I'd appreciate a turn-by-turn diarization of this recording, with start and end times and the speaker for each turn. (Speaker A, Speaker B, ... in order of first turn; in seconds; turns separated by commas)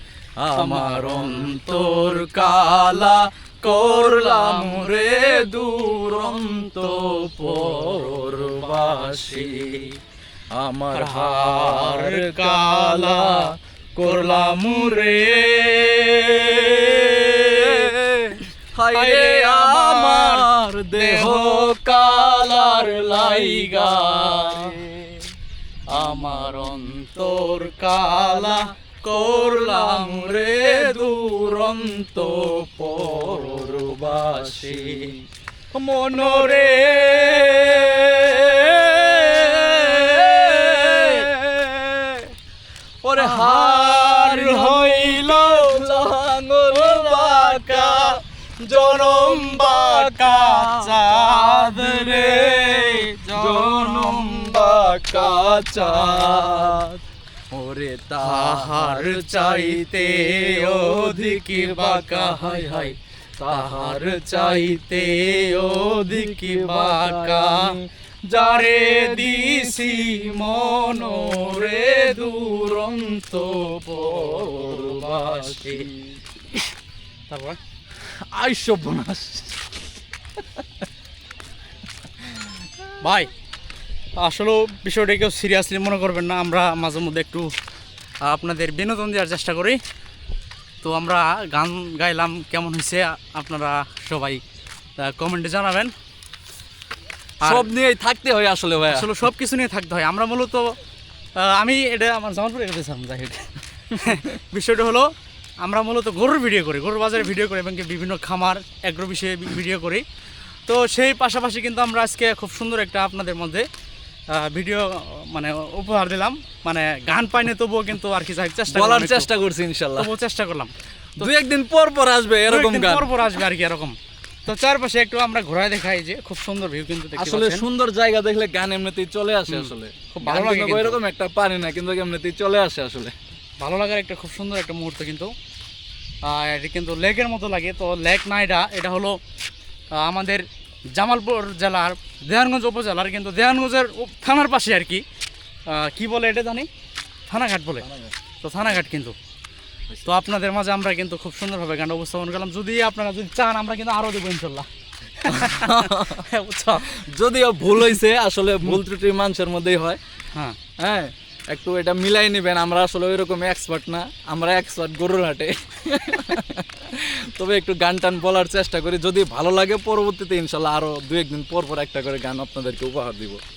Speaker A: 0.4-9.7, Speaker B: 0.5-1.9, Speaker B: 3.8-5.0, Speaker B: 6.1-9.9, Speaker A: 10.5-13.5, Speaker B: 10.9-17.9, Speaker A: 14.0-14.5, Speaker A: 16.5-25.1, Speaker B: 18.9-24.8, Speaker B: 25.9-35.2, Speaker A: 29.6-30.3, Speaker A: 32.2-35.2, Speaker A: 35.7-42.3, Speaker B: 36.2-36.5, Speaker B: 39.5-41.3, Speaker A: 43.0-56.9, Speaker B: 43.1-46.1, Speaker B: 46.6-56.8, Speaker A: 57.5-64.6, Speaker B: 58.2-75.9, Speaker A: 65.8-67.8, Speaker A: 68.3-70.2, Speaker A: 70.7-71.7, Speaker A: 73.8-76.1, Speaker B: 77.3-77.6, Speaker A: 78.3-79.7, Speaker B: 83.0-83.3, Speaker B: 84.2-87.5, Speaker B: 88.2-89.8, Speaker B: 90.8-94.4, Speaker B: 95.0-95.9, Speaker B: 97.4-97.7, Speaker A: 97.4-99.2, Speaker B: 98.9-100.8, Speaker B: 101.3-105.1, Speaker B: 105.6-110.0, Speaker B: 110.7-113.7, Speaker B: 114.3-119.3, Speaker A: 118.7-120.1, Speaker B: 120.0-121.3, Speaker A: 121.2-123.2, Speaker B: 122.5-123.9, Speaker B: 124.5-127.6, Speaker A: 127.2-133.1, Speaker B: 129.5-131.0, Speaker B: 133.6-135.3, Speaker B: 136.2-139.2, Speaker B: 139.9-145.0, Speaker B: 145.7-146.7, Speaker B: 147.3-147.9, Speaker A: 147.8-148.1, Speaker B: 148.4-149.2, Speaker B: 150.0-154.7, Speaker B: 155.2-156.9, Speaker A: 155.2-156.2, Speaker A: 156.9-160.0, Speaker A: 160.8-173.4